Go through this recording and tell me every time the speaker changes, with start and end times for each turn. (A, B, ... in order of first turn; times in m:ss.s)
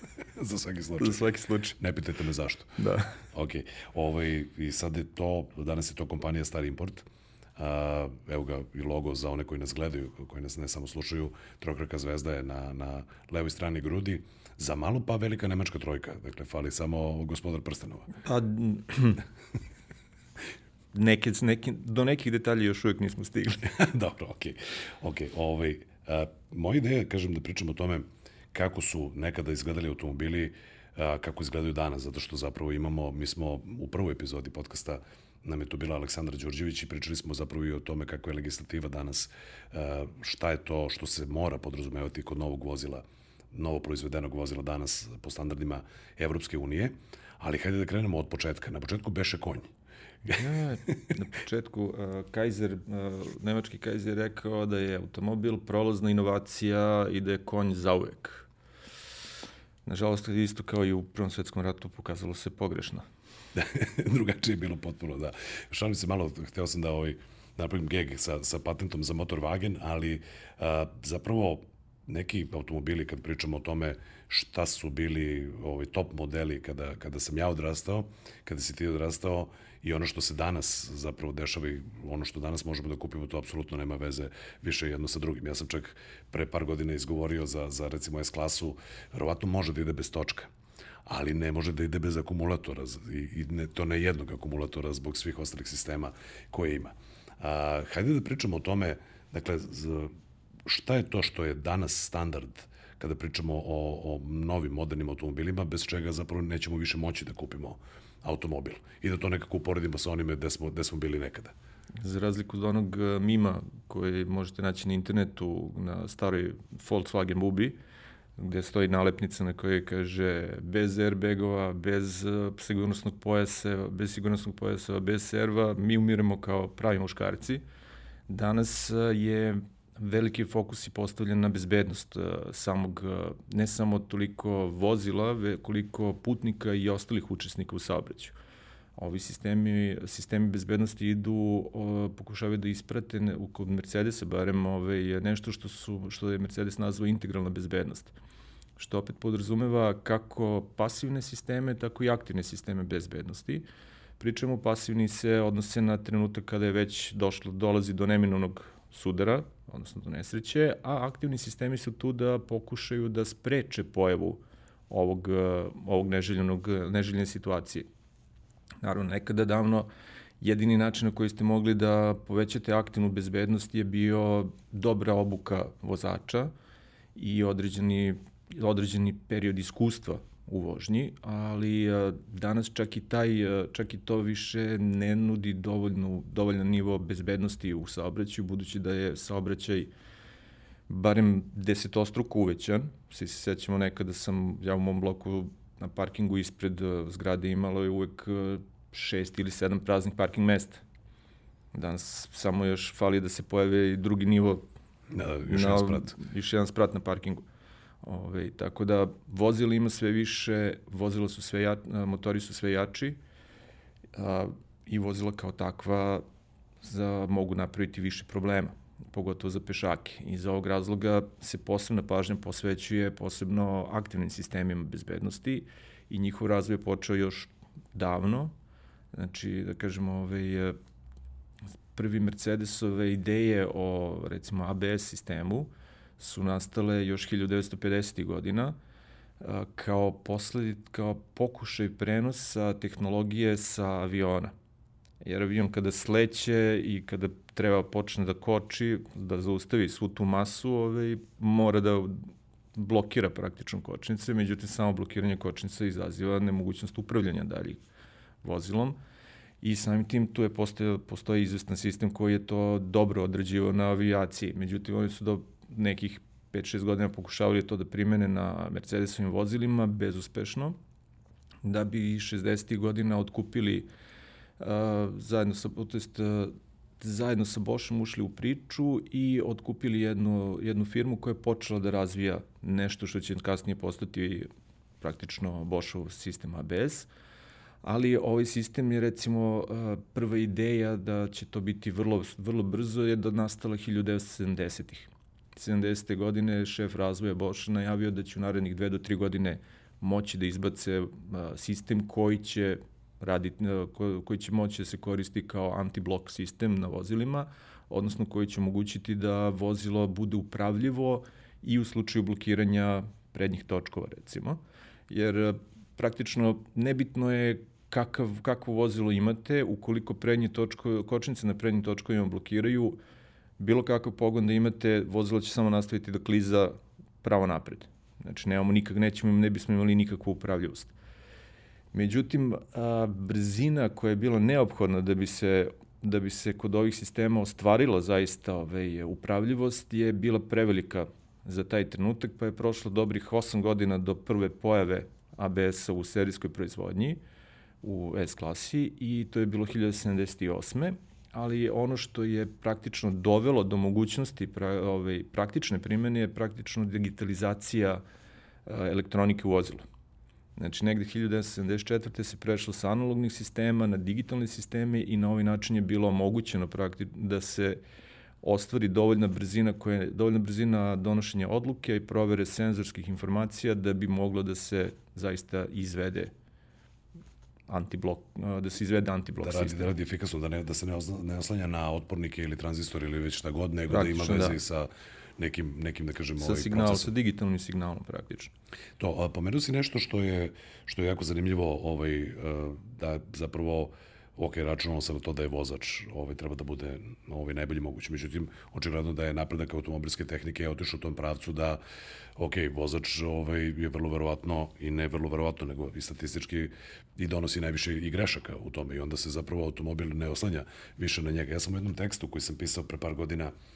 0:00.4-0:01.2 A
0:01.0-0:01.8 B
0:01.8-0:02.7 A
0:02.8-0:03.2 B
0:03.3-0:18.1 A
0:18.2-0:19.2 B
0:20.9-0:23.7 B
0:23.6-0:49.7 A
0:50.2-0:50.9 A
0:50.4-0:58.5 B
0:59.8-1:03.0 B
1:03.5-1:30.5 A
1:31.0-1:40.1 A
1:40.6-1:51.5 A
1:52.0-1:57.8 B
1:58.4-2:07.6 B
2:08.3-2:18.3 B
2:19.0-2:28.1 B
2:28.8-2:33.6 B
2:34.2-2:47.9 B
2:48.8-2:49.9 B
2:50.4-2:56.5 B
2:57.1-3:09.9 B
3:10.9-3:20.8 B
3:21.7-3:24.6 B
3:25.1-3:26.2 A
3:25.5-3:27.4 B
3:28.0-3:33.2 B
3:34.1-3:36.2 B
3:36.8-3:48.5 B
3:49.1-3:50.7 B
3:51.9-3:58.7 B
3:59.4-4:04.5 B
4:05.2-4:17.8 B
4:18.4-4:19.0 B
4:19.6-4:30.8 B
4:31.6-4:33.9 B
4:34.6-4:44.5 B
4:45.0-4:47.1 B
4:47.8-5:23.0 B
5:23.6-5:30.9 B
5:31.9-5:47.2 B
5:47.8-5:58.0 B
5:58.6-5:59.8 B
6:00.6-6:07.8 B
6:08.4-6:16.3 B
6:17.7-6:19.9 B
6:19.4-6:27.1 A
6:23.9-6:24.6 B
6:26.4-6:28.5 B
6:29.0-6:41.8 A
6:42.4-6:53.5 A